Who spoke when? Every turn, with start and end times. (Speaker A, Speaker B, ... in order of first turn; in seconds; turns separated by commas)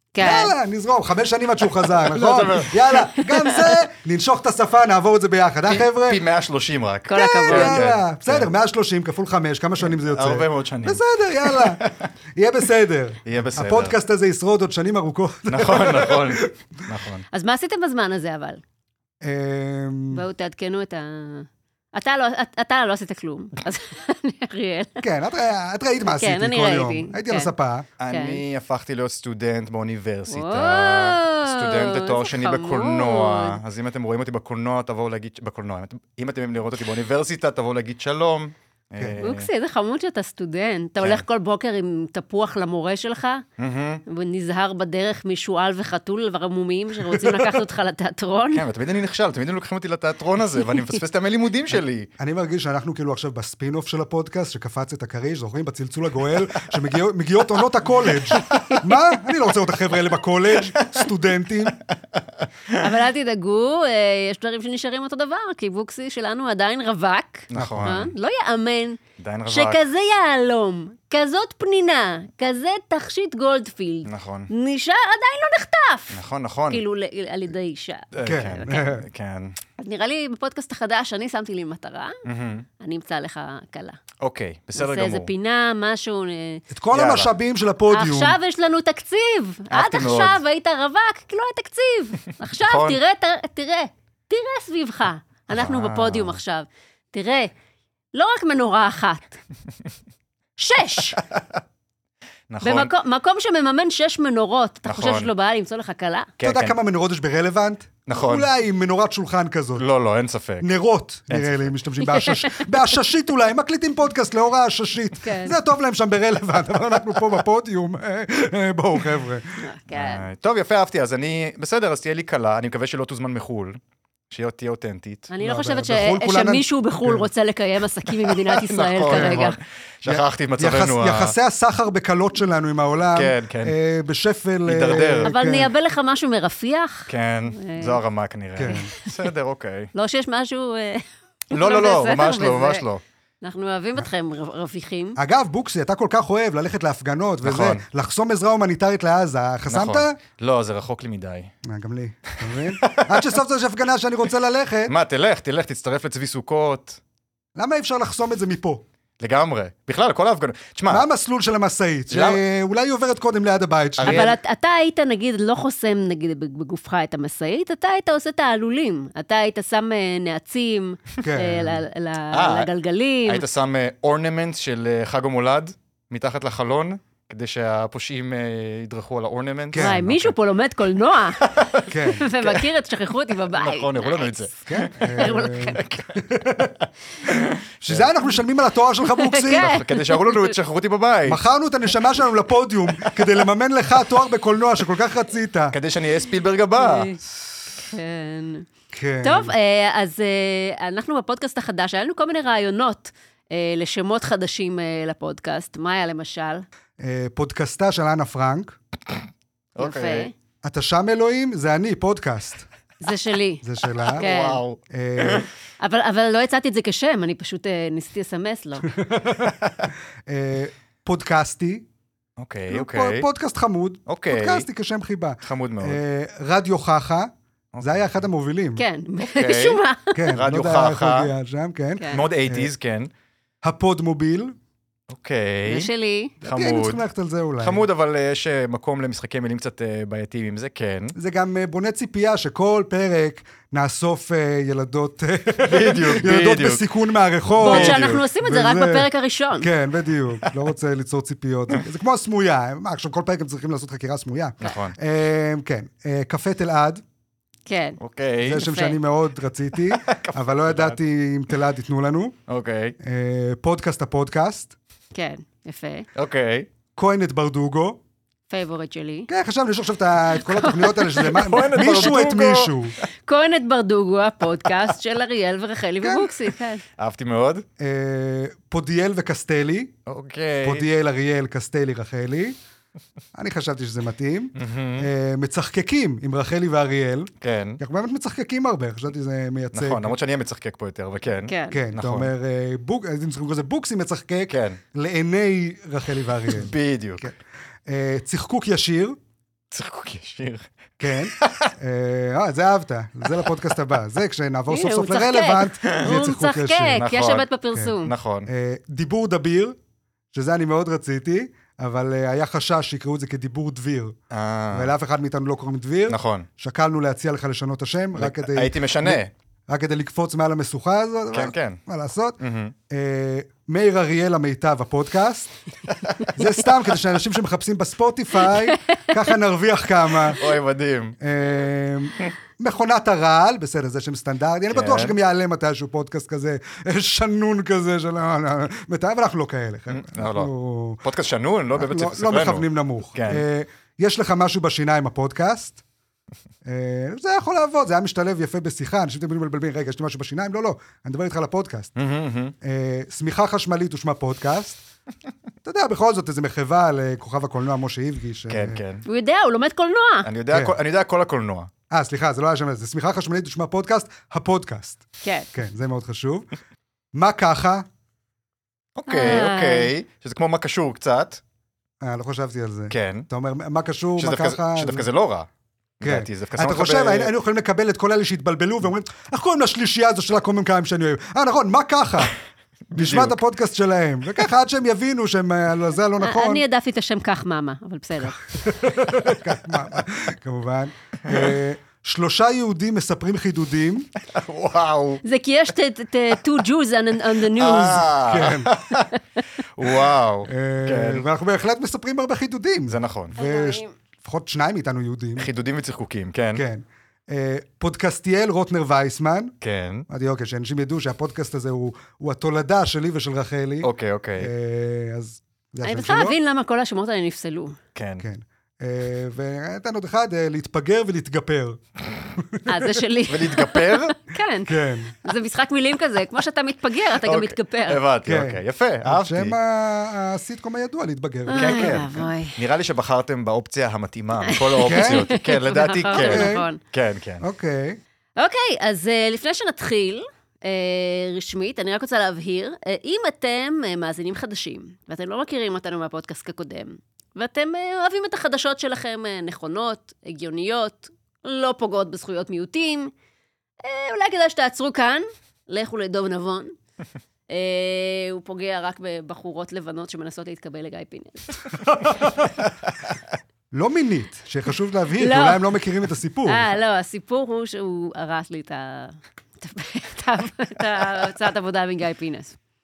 Speaker A: 0.1-0.5, Speaker B: 0.2-6.2, Speaker C: 2.0-3.1, Speaker C: 5.7-8.5, Speaker A: 7.1-7.8, Speaker B: 7.5-11.8, Speaker C: 9.8-12.1, Speaker B: 12.4-16.5, Speaker C: 13.3-14.0, Speaker C: 15.5-17.2, Speaker A: 17.3-18.6, Speaker B: 19.2-20.3, Speaker A: 20.1-25.0, Speaker B: 25.0-27.9, Speaker A: 26.0-27.5, Speaker C: 28.0-39.5, Speaker A: 28.1-28.4, Speaker A: 30.3-33.6, Speaker A: 39.2-43.5, Speaker C: 43.6-44.0, Speaker A: 44.1-48.6, Speaker C: 48.5-52.1, Speaker B: 52.2-61.8, Speaker A: 58.4-59.0, Speaker C: 61.9-62.9, Speaker A: 62.8-78.7, Speaker C: 67.5-68.1, Speaker B: 67.5-67.9, Speaker C: 69.2-69.8, Speaker C: 74.0-74.5, Speaker C: 76.1-76.8, Speaker C: 78.1-79.6, Speaker B: 78.2-79.0, Speaker A: 79.8-82.2, Speaker C: 82.3-82.7, Speaker A: 82.8-84.0, Speaker C: 84.2-85.3, Speaker A: 84.8-86.6, Speaker B: 86.7-88.4, Speaker C: 86.9-87.3, Speaker A: 87.9-97.5, Speaker C: 89.7-90.4, Speaker C: 92.5-93.0, Speaker C: 95.5-96.4, Speaker A: 98.1-99.4, Speaker A: 100.6-101.2, Speaker C: 101.3-101.6, Speaker C: 102.5-102.9, Speaker A: 102.6-106.3, Speaker C: 104.8-105.3, Speaker C: 106.4-106.8, Speaker B: 106.4-109.9, Speaker C: 108.1-108.5, Speaker C: 109.8-110.7, Speaker B: 110.6-119.6, Speaker C: 111.3-111.8, Speaker A: 112.1-112.7, Speaker A: 115.2-115.6, Speaker A: 119.6-120.2, Speaker C: 119.9-123.8, Speaker C: 124.3-125.3, Speaker A: 125.3-129.6, Speaker B: 125.4-127.3, Speaker C: 128.3-131.4, Speaker B: 129.1-129.5, Speaker B: 130.1-135.7, Speaker C: 133.1-133.8, Speaker C: 134.7-135.3, Speaker A: 135.2-138.0, Speaker C: 137.1-139.9, Speaker B: 138.6-138.9, Speaker A: 139.9-142.8, Speaker C: 141.5-143.0, Speaker A: 143.4-145.2, Speaker B: 145.2-150.2, Speaker C: 147.4-147.8, Speaker C: 149.7-151.5, Speaker B: 151.7-154.9, Speaker C: 152.5-153.4, Speaker C: 154.9-157.0, Speaker B: 157.6-158.8, Speaker C: 159.2-161.1, Speaker B: 160.9-164.3, Speaker C: 162.1-162.4, Speaker C: 164.0-164.3, Speaker A: 164.1-173.4, Speaker B: 171.2-171.8, Speaker C: 172.3-172.7, Speaker C: 173.3-180.3, Speaker B: 179.7-180.0, Speaker A: 179.8-181.4, Speaker C: 181.4-182.7, Speaker B: 181.9-182.3, Speaker A: 182.1-185.8, Speaker C: 183.3-186.2, Speaker B: 184.7-186.8, Speaker C: 186.8-188.1, Speaker B: 187.8-189.7, Speaker A: 189.2-190.6, Speaker C: 189.6-191.4, Speaker B: 191.3-195.8, Speaker C: 195.7-197.1, Speaker A: 196.8-197.2, Speaker A: 197.8-198.7, Speaker B: 198.9-199.5, Speaker A: 199.2-206.7, Speaker B: 207.0-208.8, Speaker C: 209.8-210.3, Speaker A: 209.8-210.3, Speaker B: 210.6-212.7, Speaker A: 213.0-213.6, Speaker B: 213.6-214.2, Speaker C: 214.1-215.5, Speaker A: 214.2-214.6, Speaker B: 214.9-215.5, Speaker A: 215.8-218.9, Speaker B: 218.9-219.6, Speaker C: 219.6-219.9, Speaker B: 220.3-221.8, Speaker C: 222.4-223.3, Speaker B: 222.7-228.8, Speaker C: 224.1-224.7, Speaker C: 225.4-226.0, Speaker C: 227.7-228.2, Speaker A: 228.8-230.3, Speaker C: 229.2-231.3, Speaker B: 230.1-232.7, Speaker A: 232.0-232.2, Speaker C: 232.1-233.1, Speaker B: 233.6-234.6, Speaker C: 235.1-235.9, Speaker A: 235.7-236.3, Speaker C: 236.4-237.0, Speaker B: 236.4-237.8, Speaker C: 237.6-241.2, Speaker B: 241.2-257.0, Speaker C: 245.6-246.8, Speaker C: 247.6-248.2, Speaker A: 247.6-249.7, Speaker C: 254.6-255.0, Speaker A: 257.7-258.0, Speaker C: 258.0-258.7, Speaker B: 258.4-262.4, Speaker A: 258.6-259.0, Speaker C: 259.9-261.0, Speaker C: 262.5-262.9, Speaker B: 263.0-264.8, Speaker A: 265.1-266.1, Speaker C: 266.1-266.7, Speaker B: 267.0-268.0, Speaker A: 268.5-269.3, Speaker B: 269.3-273.0, Speaker A: 270.4-272.2, Speaker C: 271.3-272.8, Speaker A: 273.2-276.8, Speaker B: 276.0-276.3, Speaker C: 277.0-277.6, Speaker B: 277.8-279.9, Speaker C: 280.1-280.9, Speaker B: 280.6-282.6, Speaker B: 283.4-290.2, Speaker C: 284.6-285.1, Speaker C: 287.4-287.8, Speaker C: 289.7-292.3, Speaker A: 291.5-291.8, Speaker B: 291.7-297.4, Speaker C: 294.5-294.8, Speaker C: 296.5-297.3, Speaker B: 297.9-299.2, Speaker C: 299.7-300.7, Speaker B: 301.0-307.0, Speaker C: 301.4-301.7, Speaker A: 304.7-308.1, Speaker C: 306.9-307.5, Speaker C: 308.0-308.5, Speaker B: 308.5-309.8, Speaker B: 310.3-314.2, Speaker C: 314.3-314.9, Speaker B: 314.7-322.4, Speaker C: 316.1-316.5, Speaker C: 318.1-319.3, Speaker C: 321.3-321.8, Speaker C: 322.4-322.8, Speaker B: 322.9-325.5, Speaker C: 325.9-326.5, Speaker B: 326.3-330.5, Speaker A: 328.7-329.0, Speaker C: 330.3-331.2, Speaker B: 331.2-341.0, Speaker C: 334.7-335.2, Speaker C: 339.9-340.5, Speaker C: 341.0-343.4, Speaker B: 341.8-345.8, Speaker B: 346.6-351.9, Speaker C: 352.0-352.5, Speaker B: 352.6-354.8, Speaker B: 355.6-358.8, Speaker C: 358.5-359.0, Speaker A: 359.1-360.3, Speaker C: 360.2-361.7, Speaker B: 360.5-360.8, Speaker B: 361.9-365.0, Speaker A: 365.2-365.5, Speaker B: 365.5-366.5, Speaker B: 367.1-367.9, Speaker C: 369.0-371.4, Speaker A: 369.1-369.9, Speaker B: 372.0-375.1, Speaker C: 372.9-373.3, Speaker C: 374.2-375.5, Speaker C: 376.0-377.3, Speaker B: 376.0-382.4, Speaker C: 382.9-383.4, Speaker B: 382.9-386.6, Speaker A: 386.2-388.4, Speaker B: 388.3-394.1, Speaker C: 394.2-395.2, Speaker A: 395.2-398.1, Speaker C: 397.5-399.1, Speaker B: 398.1-398.7, Speaker C: 399.8-401.3, Speaker B: 400.5-405.5, Speaker C: 402.9-403.4, Speaker A: 403.4-403.9, Speaker C: 405.4-406.6, Speaker B: 406.6-409.6, Speaker C: 409.6-410.1, Speaker B: 410.1-416.4, Speaker C: 413.8-414.5, Speaker A: 415.8-417.8, Speaker C: 417.9-418.2, Speaker B: 418.2-422.9, Speaker A: 422.7-428.0, Speaker C: 423.3-424.2, Speaker B: 424.7-425.2, Speaker C: 427.2-429.6, Speaker B: 428.3-432.0, Speaker A: 431.5-432.6, Speaker C: 431.6-437.4, Speaker A: 434.4-436.8, Speaker B: 434.8-435.3, Speaker B: 436.1-436.7, Speaker B: 437.4-438.0, Speaker A: 438.4-453.1, Speaker A: 453.8-456.7, Speaker A: 457.5-461.8, Speaker B: 461.7-462.5, Speaker B: 463.7-466.7, Speaker A: 465.2-465.7, Speaker A: 466.5-472.6